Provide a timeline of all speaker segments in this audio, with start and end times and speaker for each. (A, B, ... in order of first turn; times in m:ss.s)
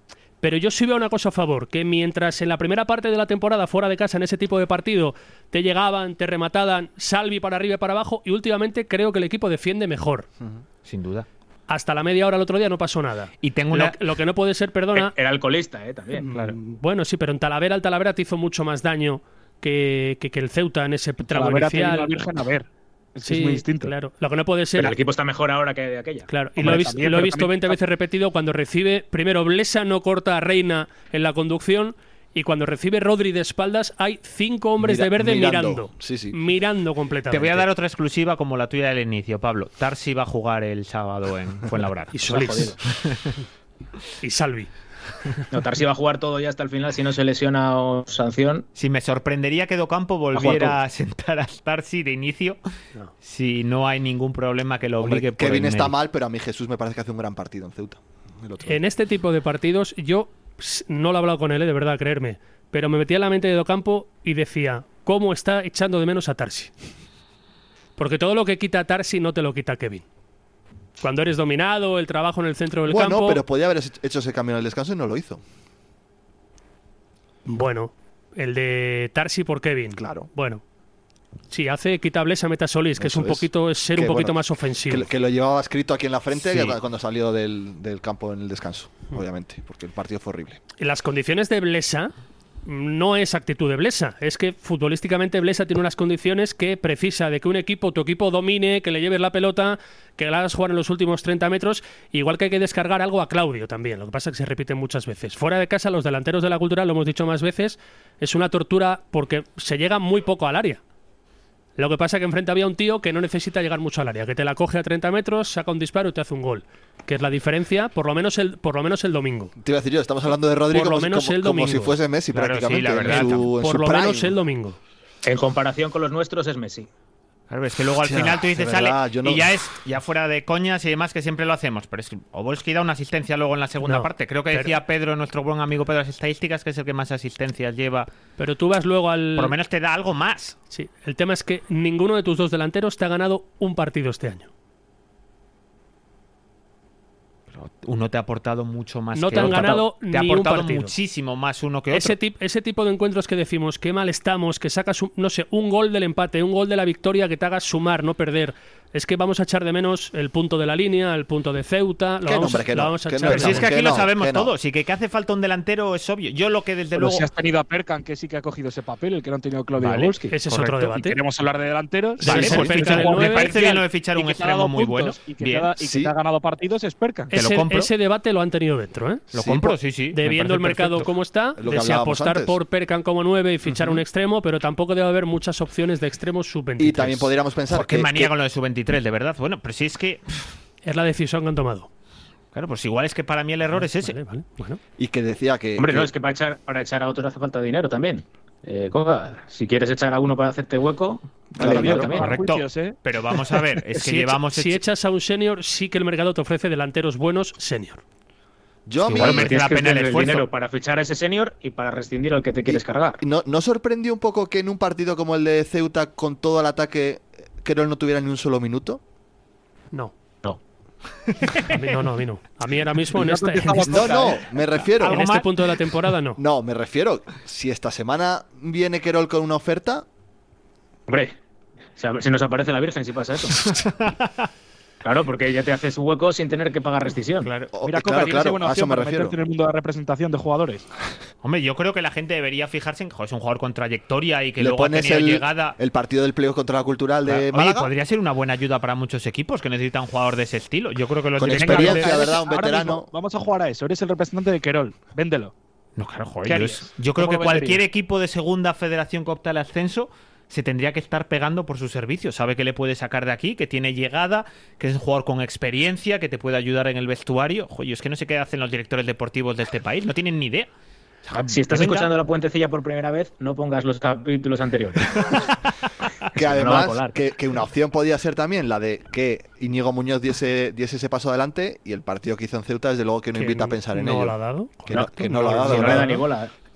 0:00.4-0:10.2 A
0:10.8-0:11.3 B
0:11.7-0:15.1 A
0:13.4-0:14.0 B
0:14.9-0:16.3 C
0:16.2-0:22.3 A
0:21.2-0:23.9 D
0:23.2-0:24.9 A
0:24.8-0:26.3 C
0:26.3-0:37.7 A
0:26.6-0:27.8 D
0:34.8-0:36.4 E
0:37.3-0:42.2 B
0:42.1-0:42.7 A
0:42.3-0:42.8 C
0:42.8-0:43.3 B
0:44.2-0:44.7 A
0:45.5-0:48.6 C
0:48.8-0:52.6 B
0:50.3-0:50.8 C
0:53.2-0:55.9 B
0:55.0-0:58.8 E
0:58.6-1:06.7 A
1:08.0-1:10.0 A
1:11.0-1:13.4 A
1:12.8-1:15.4 E
1:17.4-1:20.6 A
1:19.9-1:20.3 E
1:21.5-1:25.1 A
1:23.0-1:30.6 E
1:30.8-1:32.1 A
1:32.6-1:50.8 A
1:51.8-1:59.5 A
1:59.6-2:04.3 E
2:00.7-2:02.0 A
2:02.3-2:03.5 B
2:03.0-2:04.8 A
2:05.2-2:06.9 C
2:07.5-2:18.1 B
2:08.0-2:09.5 E
2:13.8-2:14.8 A
2:18.4-2:19.5 A
2:19.4-2:20.6 B
2:20.7-2:24.5 A
2:27.5-2:32.2 B
2:29.1-2:30.9 A
2:31.9-2:43.7 A
2:42.2-2:44.5 E
2:43.2-2:47.3 B
2:46.9-2:57.3 D
2:49.8-2:50.8 B
2:50.3-2:51.2 A
2:52.2-2:53.6 A
2:52.2-2:55.7 B
2:52.3-2:52.7 E
2:55.8-2:56.1 E
2:57.3-2:59.3 A
2:57.3-2:57.9 B
2:59.3-3:01.1 B
2:59.4-2:59.8 E
3:00.1-3:07.3 A
3:01.6-3:02.6 E
3:03.7-3:04.0 E
3:06.8-3:08.3 E
3:07.7-3:10.5 B
3:10.8-3:11.9 A
3:12.5-3:14.2 B
3:13.7-3:14.8 A
3:15.0-3:16.1 E
3:15.8-3:22.4 C
3:21.6-3:23.0 D
3:21.6-3:22.0 E
3:21.7-3:24.8 B
3:24.0-3:28.0 A
3:28.8-3:29.7 E
3:29.0-3:30.5 B
3:29.1-3:33.2 C
3:32.6-3:39.0 E
3:41.6-3:44.2 A
3:43.1-3:44.4 D
3:43.9-3:45.3 E
3:44.9-3:45.8 B
3:45.0-3:46.4 A
3:46.4-3:50.0 E
3:51.1-3:51.3 C
3:52.0-3:53.6 C
3:53.6-3:54.4 B
3:55.0-3:57.5 C
3:57.4-3:57.7 B
3:57.7-3:59.4 E
3:57.8-4:00.8 D
4:01.4-4:05.8 B
4:04.6-4:07.9 E
4:07.2-4:12.2 B
4:11.4-4:13.1 E
4:11.4-4:15.5 D
4:16.0-4:30.7 B
4:16.4-4:17.8 D
4:31.4-4:35.1 C
4:31.7-4:32.0 B
4:36.3-4:46.2 E
4:36.4-4:37.2 C
4:43.3-4:46.2 A
4:44.9-4:46.5 C